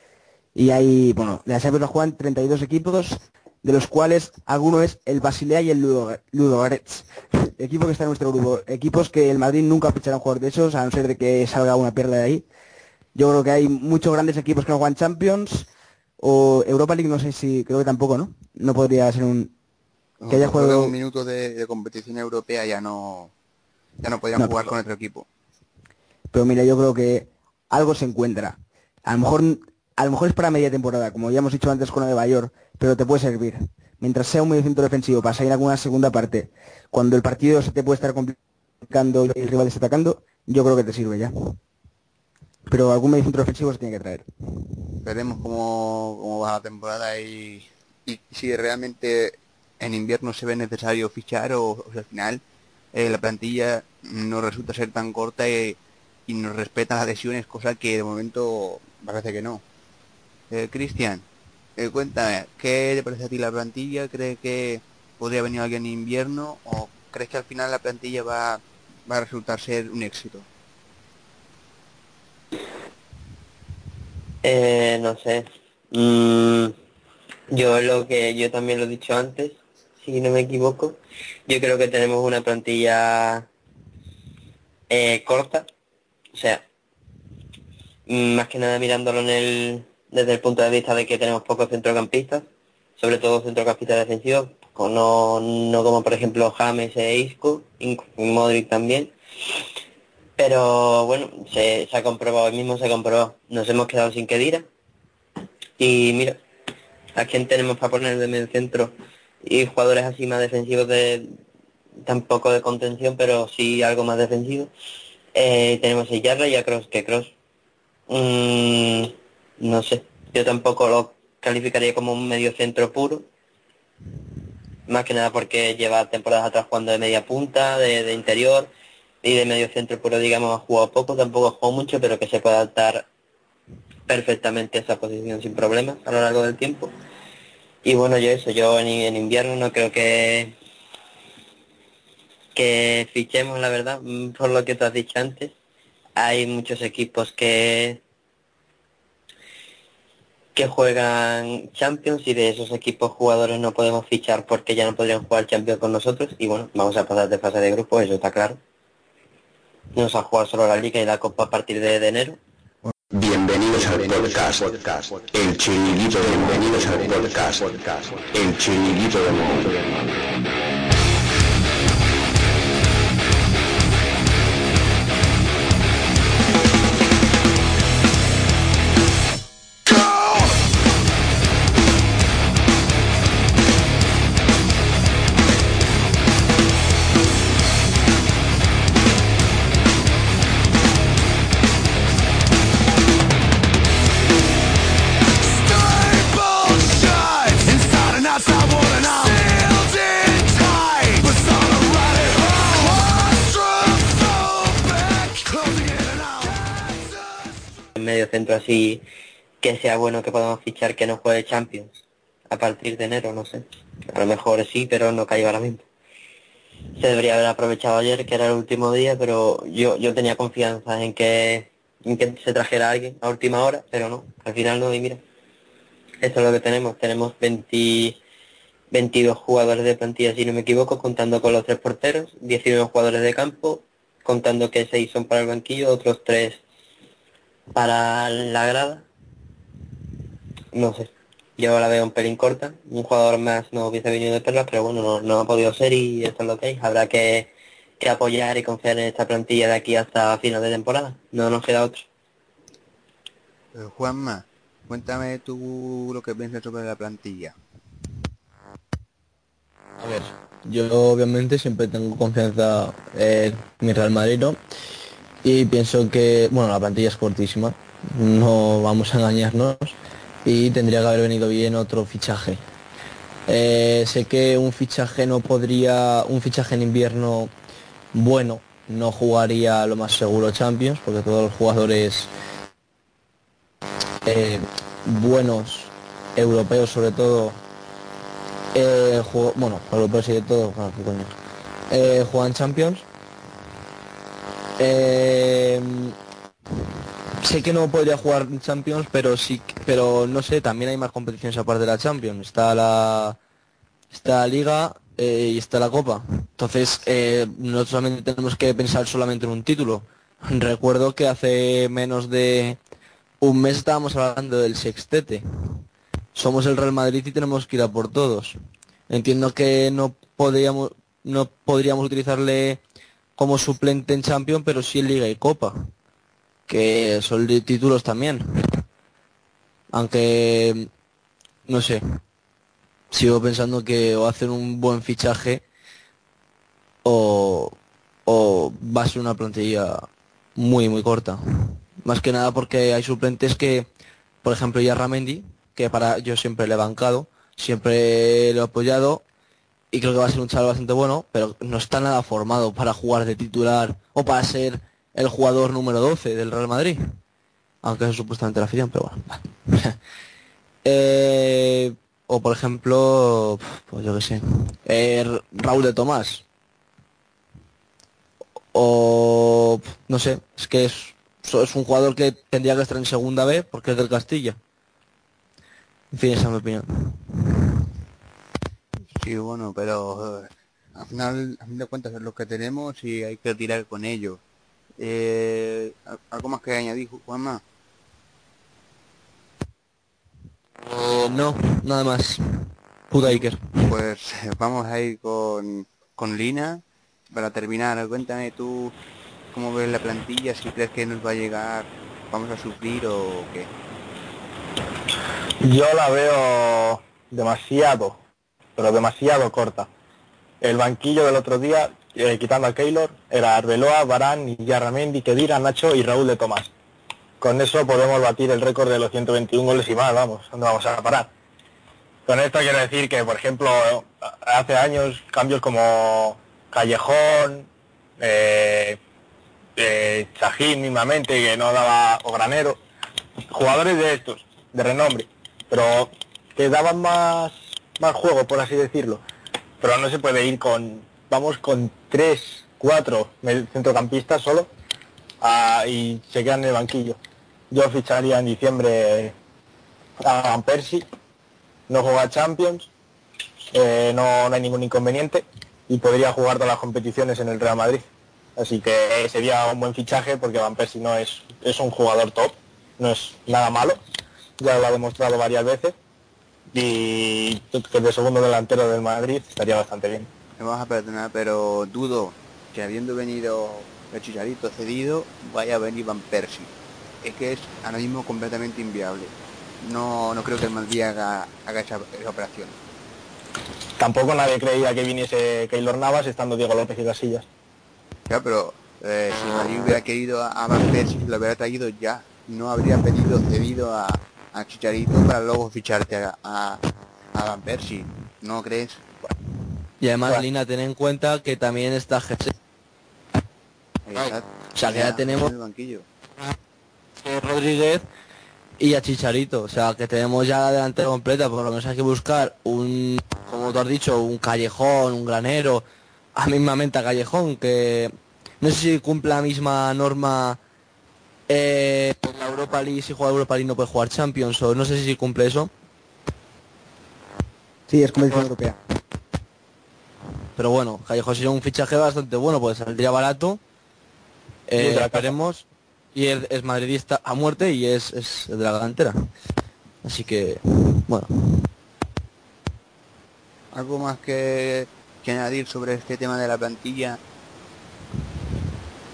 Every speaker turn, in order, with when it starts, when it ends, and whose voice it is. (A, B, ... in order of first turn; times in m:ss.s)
0:00.5-0:12.4 A
0:13.1-0:15.7 A
0:16.2-0:19.5 A
0:20.2-0:23.3 B
0:20.3-0:20.9 A
0:24.0-0:25.3 B
0:24.3-0:24.7 A
0:26.3-0:41.6 A
0:42.7-0:44.2 A
0:45.0-0:52.4 B
0:52.9-0:59.6 B
1:00.5-1:01.2 B
1:01.8-1:10.5 B
1:14.4-1:16.7 C
1:17.5-1:21.0 C
1:21.5-1:23.5 C
1:24.9-1:25.6 C
1:26.3-1:26.6 C
1:28.1-1:32.4 C
1:33.0-1:39.1 C
1:40.4-1:44.6 C
1:45.8-1:46.4 C
1:47.1-1:51.4 C
1:52.0-1:54.7 C
1:55.3-1:57.3 C
1:58.1-2:03.2 C
2:04.9-2:08.7 C
2:09.2-2:13.0 C
2:14.1-2:16.9 C
2:17.8-2:20.5 C
2:22.5-2:25.5 C
2:26.2-2:28.0 C
2:30.6-2:38.6 C
2:39.9-2:42.4 C
2:43.1-2:50.0 D
3:27.9-3:29.0 C
3:29.6-3:35.8 C
3:37.0-3:45.2 C
3:46.2-3:48.2 C
3:48.9-3:56.6 C
3:57.7-3:59.0 C
4:00.7-4:12.0 C
4:13.7-4:17.6 B
4:20.0-4:24.6 E
4:25.4-4:32.6 E
4:33.5-4:37.5 E
4:38.1-4:42.3 E
4:44.2-4:47.6 E
4:48.7-4:51.3 E
4:51.9-4:53.0 E
4:54.8-4:56.1 E
4:57.4-5:03.4 E
5:04.1-5:12.8 E
5:13.4-5:15.4 E
5:16.3-5:18.6 E
5:19.1-5:22.8 E
5:23.4-5:25.9 E
5:26.7-5:28.8 E
5:29.9-5:30.9 E
5:31.7-5:32.0 E
5:33.1-5:35.6 E
5:37.0-5:43.9 E
5:44.4-5:49.2 E
5:49.9-5:57.2 E
5:57.8-6:00.0 E
6:00.8-6:06.4 E
6:08.7-6:14.6 E
6:16.1-6:17.6 E
6:19.2-6:24.4 B
6:25.0-6:27.6 B
6:30.9-6:33.6 E
6:33.2-6:38.9 B
6:39.5-6:43.7 B
6:45.6-6:48.2 F
6:48.8-6:49.9 F
6:50.6-6:56.7 F
6:57.4-7:01.3 F
7:02.3-7:07.7 F
7:08.2-7:09.0 F
7:09.8-7:12.8 F
7:13.5-7:19.2 F
7:19.8-7:24.7 F
7:25.4-7:27.2 F
7:27.7-7:29.3 F
7:30.2-7:31.0 F
7:31.9-7:32.9 F
7:33.7-7:38.0 F
7:38.6-7:44.0 F
7:44.6-7:45.9 F
7:46.7-7:50.3 F
7:50.6-8:02.7 B
8:04.0-8:07.5 F
8:08.3-8:16.8 B
8:17.3-8:19.2 B
8:20.0-8:22.5 E
8:24.1-8:26.0 B
8:24.7-8:25.5 E
8:27.2-8:28.0 E
8:28.8-8:35.8 E
8:36.4-8:40.6 E
8:41.5-8:45.7 E
8:47.9-8:48.8 A
8:50.6-8:53.6 E
8:54.7-8:59.1 E
8:54.8-8:55.3 F
9:00.0-9:01.7 E
9:03.7-9:07.2 B